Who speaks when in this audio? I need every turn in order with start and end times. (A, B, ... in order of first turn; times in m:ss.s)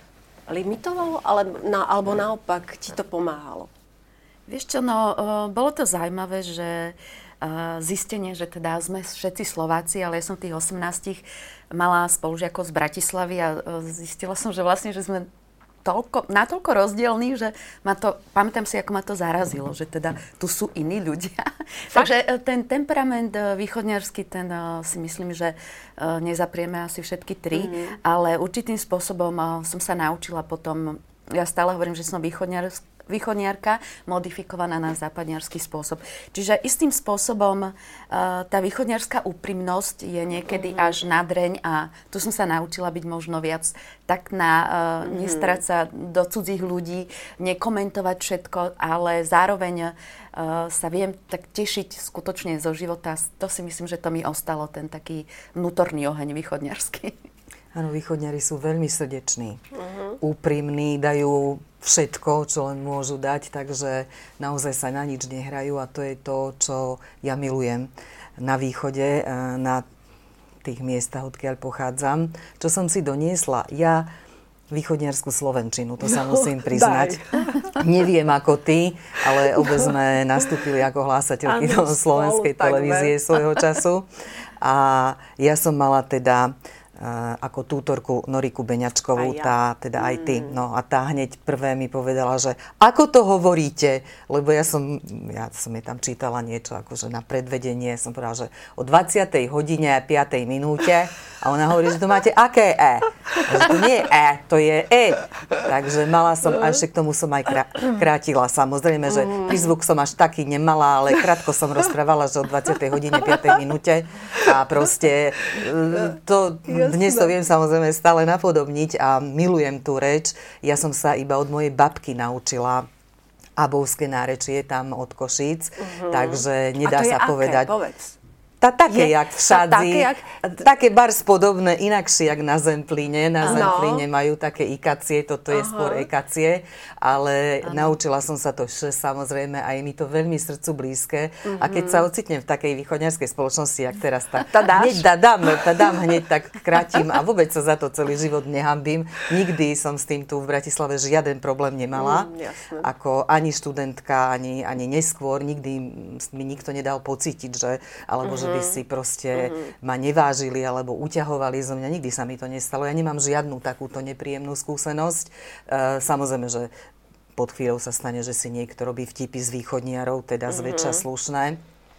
0:00.5-0:03.7 A
0:04.5-0:15.3 B
0:15.8-0:57.1 B
0:27.5-0:28.0 A
0:40.6-0:40.9 A
0:45.0-0:45.6 A
0:57.7-0:59.6 C
0:59.8-1:00.2 A
1:00.2-1:09.8 C
1:10.6-1:14.1 C
1:14.7-1:24.1 C
1:16.0-1:17.8 A
1:19.5-1:19.8 A
1:21.5-1:23.6 A
1:24.6-2:02.9 C
1:29.2-1:30.6 A
1:49.1-1:49.7 A
1:56.7-1:57.3 A
2:03.6-2:07.7 C
2:05.8-2:08.2 A
2:08.6-2:46.7 C
2:08.9-2:10.2 A
2:13.4-2:14.1 A
2:15.5-2:16.1 A
2:21.4-2:22.1 A
2:24.5-2:25.0 A
2:32.0-2:32.9 A
2:38.2-2:38.8 A
2:39.4-2:39.7 A
2:47.4-2:51.6 C
2:50.5-2:51.0 A